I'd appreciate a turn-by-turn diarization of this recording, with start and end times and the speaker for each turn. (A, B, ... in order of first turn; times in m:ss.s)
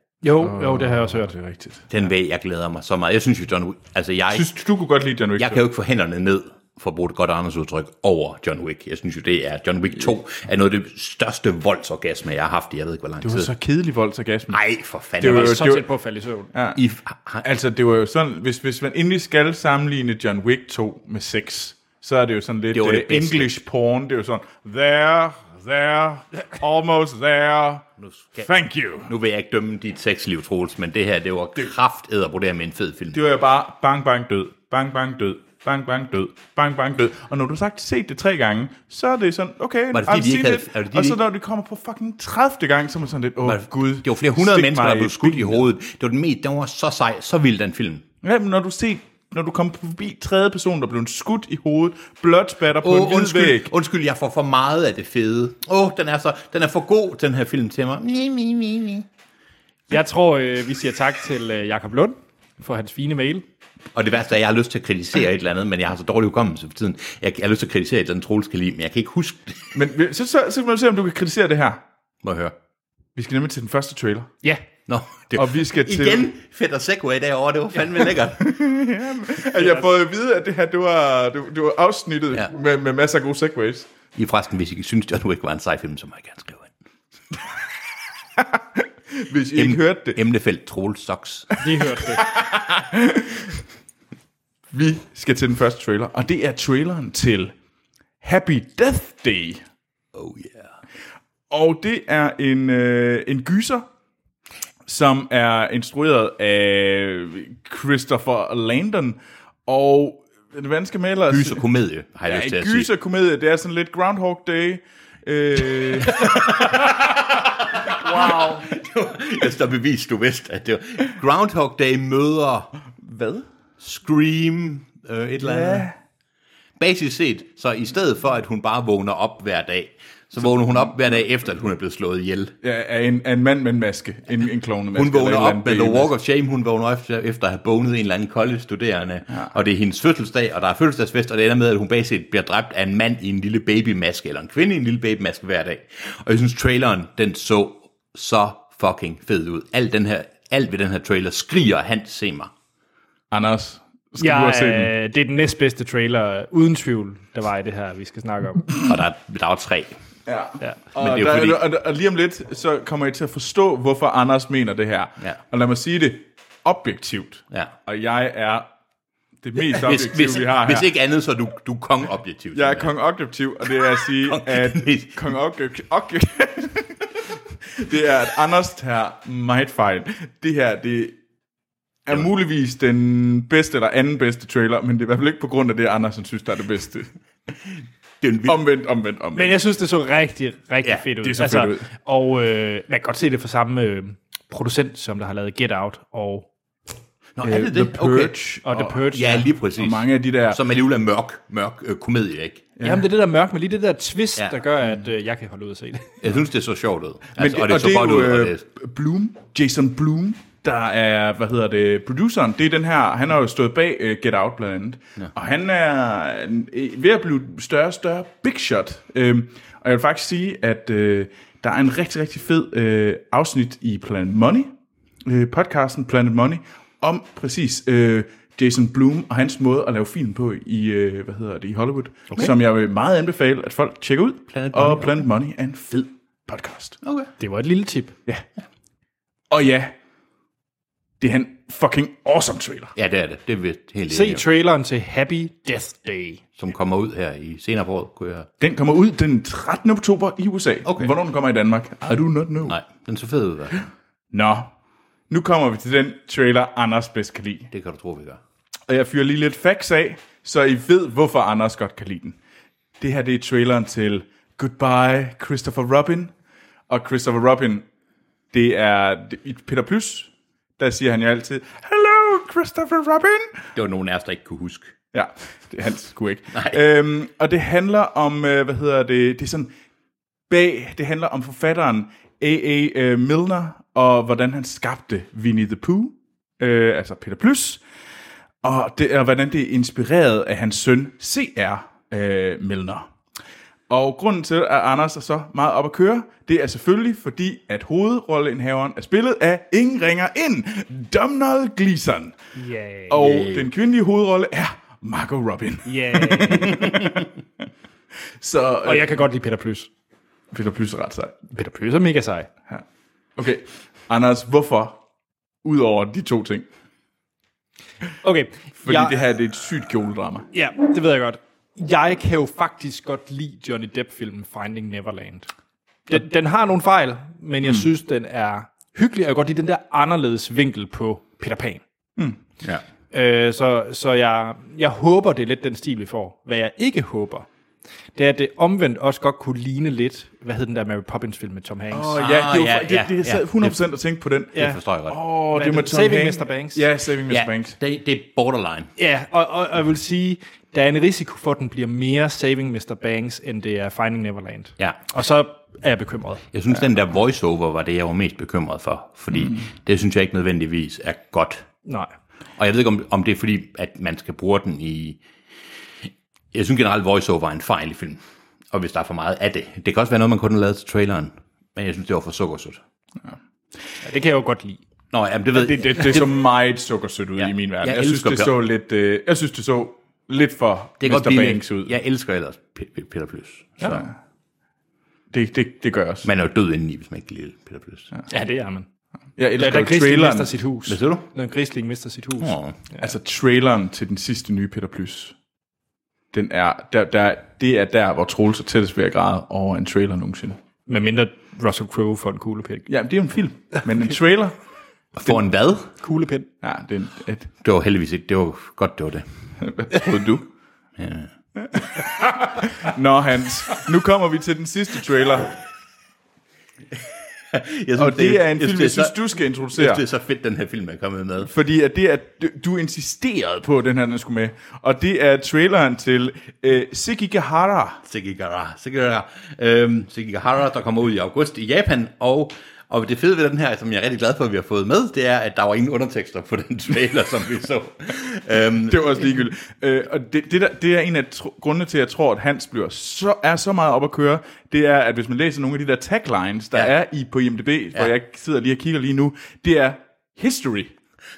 0:00.2-0:01.3 A
0:00.4-0:01.8 B
0:01.9-0:04.5 C
0:04.3-0:05.6 B
0:05.4-0:13.5 C
0:13.2-0:14.6 B
0:14.5-0:15.8 C
0:15.2-0:15.8 B
0:15.2-0:16.5 A
0:16.5-0:16.8 B
0:16.7-0:17.4 C
0:17.4-0:27.8 B
0:22.7-0:23.6 C
0:28.0-0:28.5 C
0:28.4-0:29.1 B
0:29.0-0:33.2 C
0:33.1-0:45.6 B
0:39.9-0:41.2 C
0:43.4-0:48.0 C
0:48.2-0:53.7 B
0:52.8-0:59.0 C
0:59.9-1:03.4 A
1:03.9-1:09.7 C
1:09.7-1:11.8 B
1:12.2-1:12.5 C
1:13.2-1:14.3 B
1:14.9-1:18.6 C
1:15.3-1:16.3 B
1:18.2-1:23.9 B
1:24.2-1:26.7 C
1:29.1-1:30.2 B
1:29.5-1:31.5 C
1:31.6-1:32.2 A
1:32.2-1:33.6 B
1:34.7-1:37.5 B
1:38.2-1:39.6 B
1:40.1-1:40.7 C
1:41.5-1:43.8 B
1:44.8-1:51.6 B
1:51.3-1:52.9 C
1:52.2-1:57.1 B
1:56.1-2:02.7 C
1:57.9-1:58.6 B
2:03.0-2:03.4 B
2:03.8-2:05.9 C
2:05.4-2:05.9 B
2:06.8-2:12.5 C
2:12.6-2:16.1 B
2:14.9-2:32.5 C
2:33.3-2:34.9 B
2:34.2-2:38.7 A
2:38.8-2:40.0 C
2:40.3-2:48.7 B
2:41.0-2:41.6 C
2:49.4-2:50.9 B
2:49.7-2:52.9 C
2:52.5-2:57.2 B
2:53.8-2:55.1 C
2:57.7-3:01.2 B
3:02.0-3:07.1 B
3:08.2-3:08.6 C
3:08.4-3:09.6 B
3:09.3-3:16.5 A
3:11.2-3:11.9 B
3:17.4-3:18.4 C
3:17.4-3:19.0 B
3:18.6-3:19.5 A
3:19.1-3:22.7 C
3:19.8-3:20.6 B
3:22.8-3:23.0 B
3:22.8-3:26.2 A
3:26.2-3:28.6 C
3:27.4-3:44.7 B
3:45.2-3:57.0 B
3:54.5-3:55.2 C
3:57.0-3:57.3 C
3:57.4-3:58.1 A
3:59.5-3:59.9 B
4:01.2-4:02.9 B
4:03.0-4:04.4 C
4:04.1-4:06.4 A
4:06.6-4:08.5 C
4:08.6-4:12.7 B
4:10.8-4:11.1 C
4:12.6-4:13.8 C
4:14.3-4:14.7 B
4:15.3-4:17.7 B
4:17.7-4:18.4 C
4:18.9-4:22.4 B
4:23.0-4:26.3 B
4:26.9-4:27.8 B
4:28.5-4:33.6 B
4:33.7-4:34.9 C
4:35.1-4:39.7 B
4:40.5-4:47.8 B
4:48.6-4:53.1 B
4:53.9-5:02.4 B
5:02.6-5:03.2 A
5:03.1-5:07.3 B
5:03.1-5:03.7 C
5:05.8-5:06.8 A
5:08.4-5:09.2 B
5:08.8-5:09.9 A
5:10.5-5:11.4 B
5:11.5-5:12.5 A
5:13.4-5:15.0 B
5:15.6-5:16.6 B
5:18.2-5:19.2 A
5:18.8-5:20.5 B
5:20.5-5:25.5 A
5:26.1-5:31.8 A
5:33.1-5:37.5 A
5:38.2-5:42.2 A
5:41.9-5:47.8 B
5:42.2-5:43.8 C
5:44.5-5:45.2 C
5:45.5-5:46.8 A
5:47.3-5:48.9 C
5:49.0-5:56.4 A
5:56.5-6:01.6 C
6:01.8-6:02.1 A
6:02.6-6:05.2 C
6:06.5-6:08.2 C
6:08.7-6:12.8 C
6:14.0-6:14.8 A
6:15.1-6:16.3 C
6:15.5-6:21.9 B
6:17.4-6:18.6 C
6:21.0-6:24.0 C
6:23.8-6:24.1 B
6:25.3-6:26.3 B
6:26.2-6:28.1 C
6:28.3-6:28.9 A
6:29.4-6:30.6 B
6:29.6-6:33.0 A
6:30.9-6:31.3 C
6:32.4-6:32.8 C
6:33.0-6:35.3 B
6:36.3-6:40.6 B
6:40.9-6:42.9 A
6:42.9-6:44.6 B
6:45.2-6:45.9 C
6:46.0-6:46.5 A
6:46.6-6:47.5 B
6:47.6-6:49.2 C
6:49.6-6:50.5 B
6:51.0-6:51.3 C
6:51.6-6:55.5 B
6:57.5-6:59.2 C
6:58.0-7:00.0 B
6:59.7-7:01.5 C
7:01.4-7:08.0 B
7:08.0-7:19.1 C
7:18.9-7:30.9 B